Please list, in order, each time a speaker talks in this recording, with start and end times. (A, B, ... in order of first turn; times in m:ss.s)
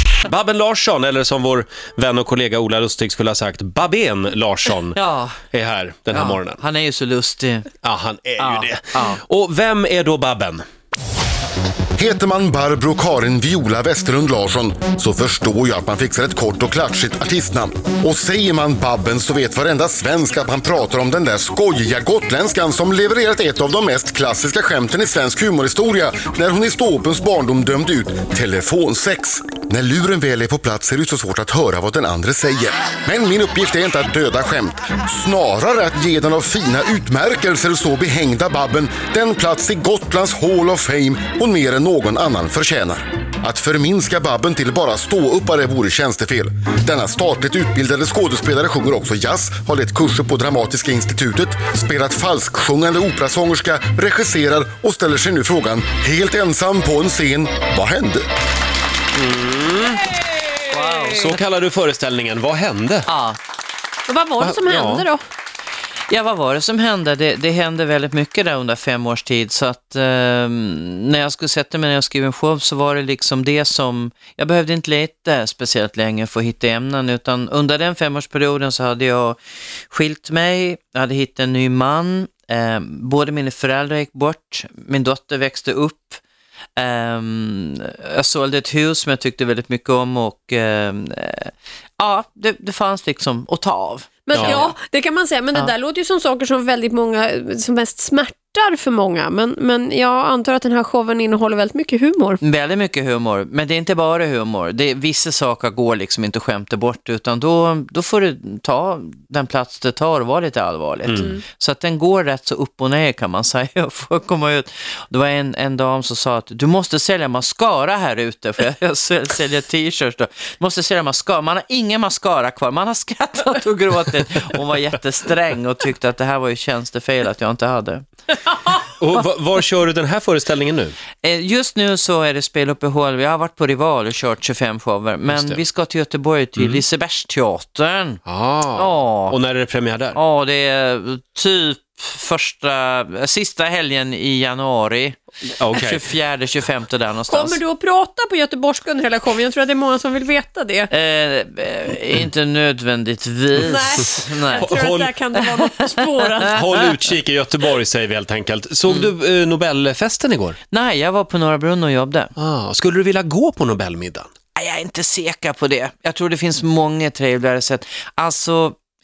0:00.2-0:05.0 A
0:04.9-0:05.4 B
0:05.5-0:06.6 A
0:06.1-0:07.7 B
0:07.8-0:10.6 A
0:08.4-0:09.2 B
0:12.0-0:58.3 C
0:59.1-1:00.1 A
1:00.7-1:01.4 B
1:01.1-1:03.1 A
1:03.1-1:03.4 B
1:04.1-1:05.2 D
1:04.4-1:05.1 A
1:06.1-1:26.2 B
1:26.8-1:34.7 B
1:34.3-1:42.4 D
1:34.3-1:34.6 A
1:42.4-2:08.0 B
1:51.0-1:51.3 A
2:08.9-2:10.9 A
2:11.2-2:18.2 B
2:15.3-2:15.6 A
2:16.6-2:16.8 A
2:18.2-2:20.2 A
2:18.7-2:19.4 B
2:20.1-2:27.6 B
2:25.6-2:26.0 A
2:27.3-2:30.9 D
2:30.9-2:34.7 B
2:33.6-2:36.6 D
2:34.6-2:35.2 A
2:35.6-2:36.1 B
2:36.4-2:40.6 A
2:40.7-2:42.3 B
2:42.4-2:44.3 A
2:44.6-2:48.8 B